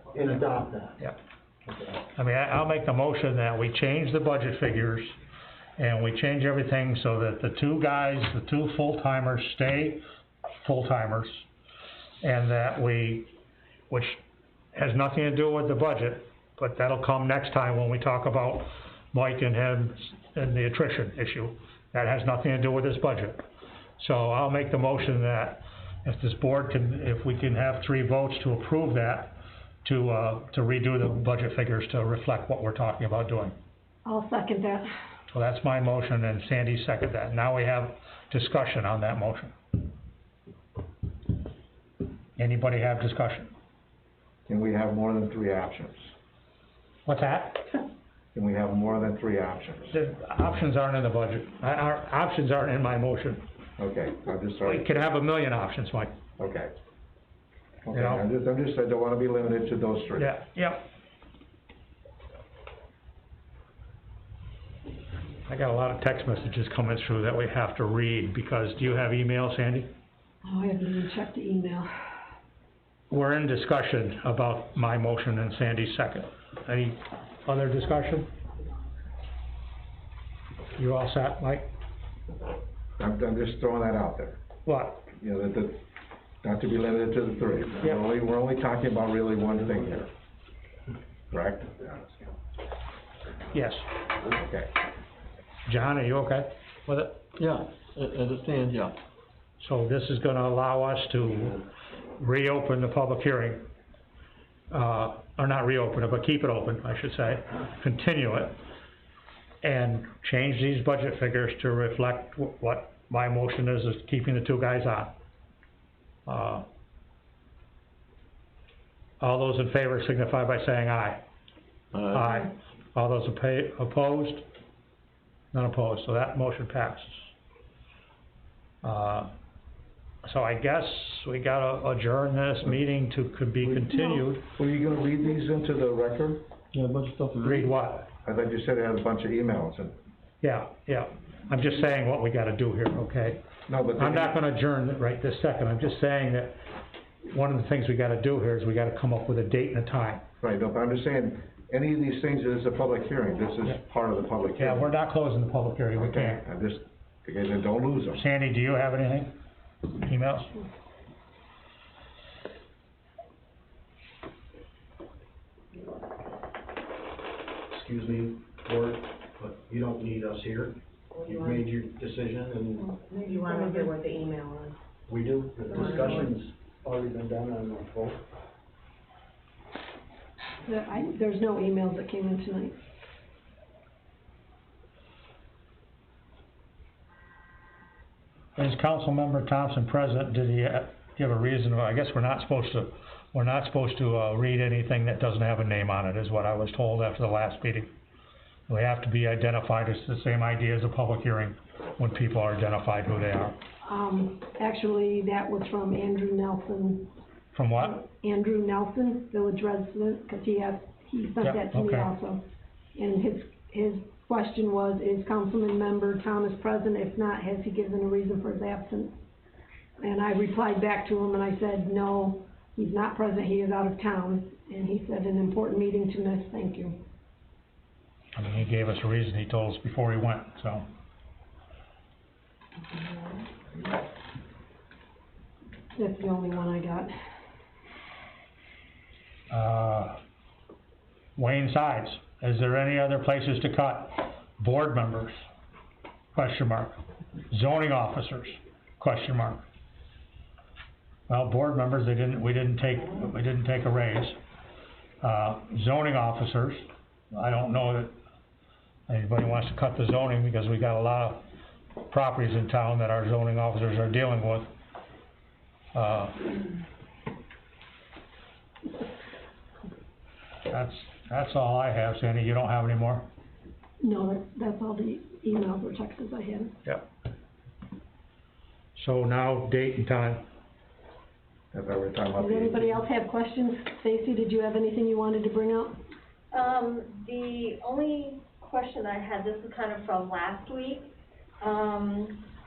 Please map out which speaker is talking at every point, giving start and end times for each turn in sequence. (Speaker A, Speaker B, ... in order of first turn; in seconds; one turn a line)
Speaker A: 0.1-1.0
Speaker A: 1.7-1.9
Speaker B: 2.1-5.1
Speaker B: 5.8-11.4
Speaker B: 12.2-13.3
Speaker B: 13.9-14.2
Speaker B: 14.7-23.4
Speaker B: 24.0-33.5
Speaker C: 34.0-34.9
Speaker B: 35.3-39.5
Speaker B: 42.4-43.5
Speaker D: 44.5-46.1
Speaker B: 47.0-47.8
Speaker D: 48.3-49.9
Speaker B: 49.9-53.4
Speaker D: 53.8-54.9
Speaker B: 54.6-56.1
Speaker D: 56.4-56.7
Speaker D: 57.9-60.3
Speaker B: 57.9-58.2
Speaker B: 60.2-60.8
Speaker B: 65.5-69.9
Speaker C: 70.4-71.9
Speaker B: 73.1-78.3
Speaker B: 80.8-81.7
Speaker D: 83.0-84.4
Speaker B: 84.7-85.1
Speaker D: 85.1-85.8
Speaker D: 86.4-90.1
Speaker D: 91.3-92.1
Speaker B: 93.5-93.9
Speaker D: 94.3-94.7
Speaker B: 95.7-97.2
Speaker E: 97.4-98.9
Speaker B: 99.6-101.6
Speaker B: 102.2-103.7
Speaker B: 104.7-108.6
Speaker B: 109.6-115.1
Speaker B: 116.2-116.6
Speaker B: 119.2-121.2
Speaker E: 121.9-122.4
Speaker B: 122.1-124.5
Speaker B: 125.5-127.3
Speaker B: 128.8-129.3
Speaker B: 130.2-134.5
Speaker D: 134.6-136.4
Speaker E: 136.7-137.7
Speaker B: 137.4-138.1
Speaker D: 138.2-139.9
Speaker B: 140.4-143.4
Speaker D: 143.7-144.4
Speaker B: 143.9-146.6
Speaker B: 147.2-150.2
Speaker D: 150.4-154.9
Speaker B: 154.6-156.4
Speaker D: 155.9-158.2
Speaker B: 158.2-159.3
Speaker B: 159.9-160.6
Speaker A: 167.7-172.9
Speaker F: 171.1-171.6
Speaker F: 173.1-174.7
Speaker C: 173.2-173.9
Speaker A: 175.1-178.2
Speaker F: 175.7-176.3
Speaker C: 180.6-182.8
Speaker B: 188.6-197.9
Speaker B: 198.7-203.5
Speaker C: 203.8-207.1
Speaker B: 207.5-208.0
Speaker C: 207.8-212.4
Speaker B: 211.4-212.1
Speaker C: 212.9-219.2
Speaker C: 220.0-227.0
Speaker B: 228.3-230.9
Speaker C: 235.9-237.1
Speaker B: 239.5-240.2
Speaker B: 241.3-245.4
Speaker B: 246.3-249.6
Speaker B: 251.3-254.4
Speaker B: 255.2-258.1
Speaker B: 259.1-261.4
Speaker B: 262.0-264.7
Speaker B: 265.9-266.5
Speaker B: 270.7-273.3
Speaker C: 274.0-276.7
Speaker B: 278.9-280.4
Speaker D: 281.7-282.9
Speaker C: 282.4-286.0
Speaker G: 286.5-291.1
Speaker G: 291.6-292.4